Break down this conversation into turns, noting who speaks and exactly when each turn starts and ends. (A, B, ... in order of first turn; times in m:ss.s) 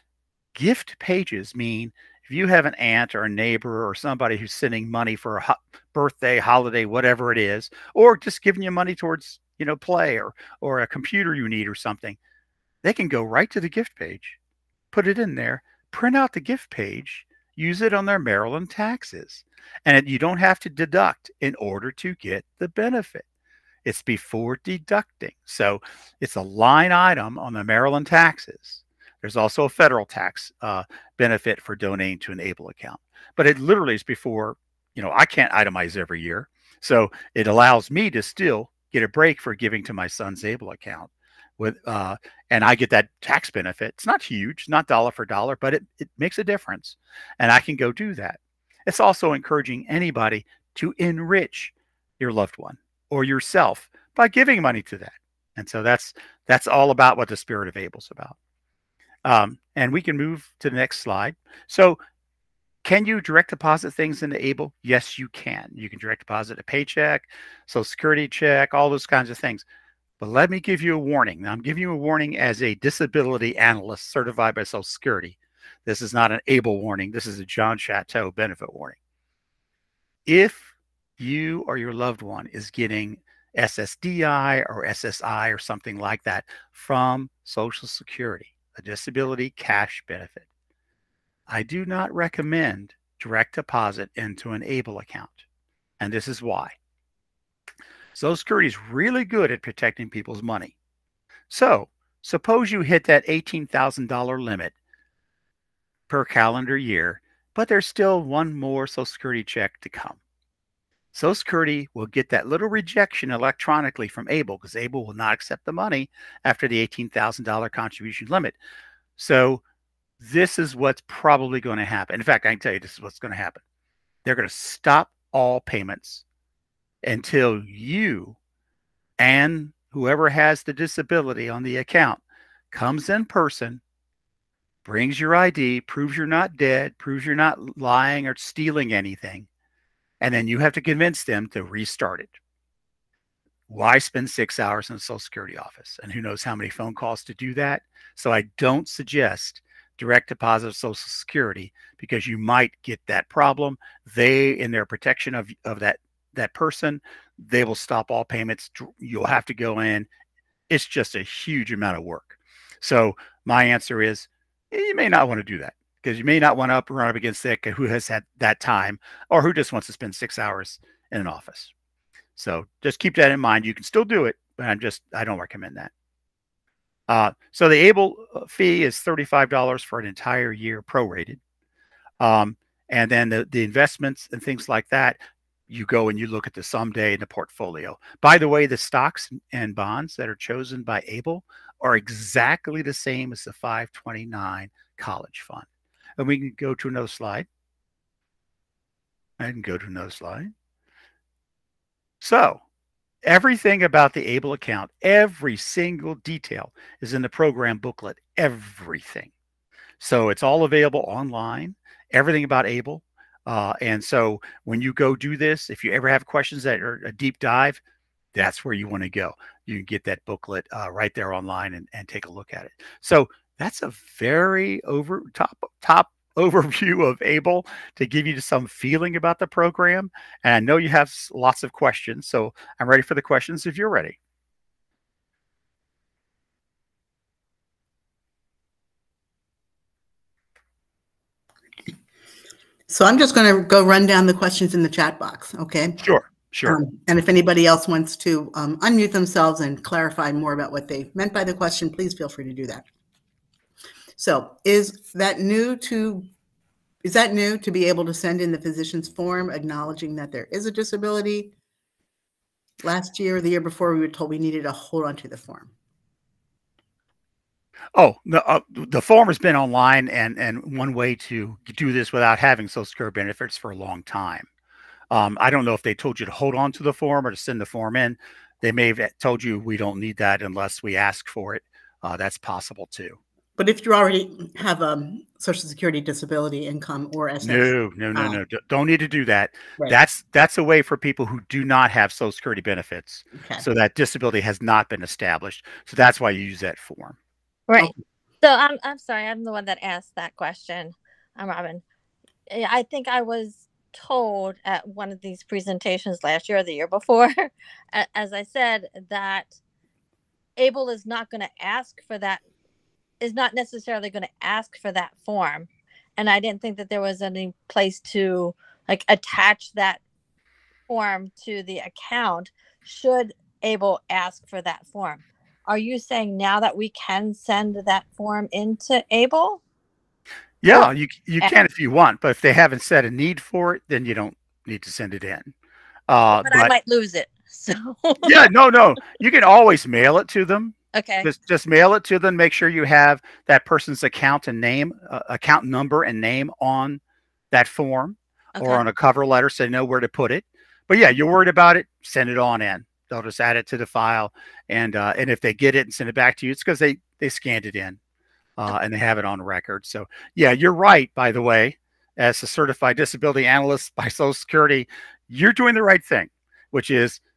0:00.5-0:12.2 A
0:12.8-0:14.4 A
0:14.9-0:23.2 A
0:23.8-0:58.4 A
0:59.2-1:02.0 A
1:02.8-1:09.6 A
1:10.2-1:19.0 A
1:20.2-1:30.5 A
1:31.5-1:35.4 A
1:36.0-1:36.8 A
1:38.1-1:40.7 A
1:41.5-1:44.7 A
1:46.1-1:50.2 A
1:51.1-1:58.6 A
1:59.2-1:59.6 A
2:00.2-2:03.6 A
2:04.2-2:06.2 A
2:07.0-2:08.4 A
2:09.2-2:13.8 A
2:14.8-2:19.5 A
2:20.2-2:22.4 A
2:23.7-2:40.1 A
2:40.7-2:51.7 A
2:52.4-2:55.9 A
2:57.1-3:01.4 A
3:02.2-3:15.6 A
3:16.2-3:17.5 A
3:19.4-3:20.5 A
3:22.2-3:22.6 A
3:23.2-3:29.3 A
3:30.0-3:37.8 A
3:38.3-3:54.2 A
4:02.9-4:06.0 B
4:06.0-4:06.8 A
4:06.6-4:12.8 B
4:14.2-4:16.3 B
4:17.0-4:21.5 B
4:22.8-4:25.7 B
4:27.9-4:34.5 A
4:35.1-4:43.2 A
4:43.6-4:48.4 B
4:47.4-4:57.2 A
4:53.3-4:53.6 B
4:57.7-5:01.8 C
5:02.5-5:09.5 C
5:10.6-5:12.4 C
5:13.2-5:20.0 C
5:20.9-5:29.6 C
5:30.6-5:35.5 A
5:36.1-5:36.7 A
5:36.4-5:38.4 C
5:38.2-5:58.0 A
5:40.9-5:41.3 C
5:48.5-5:48.8 C
5:58.6-6:07.2 A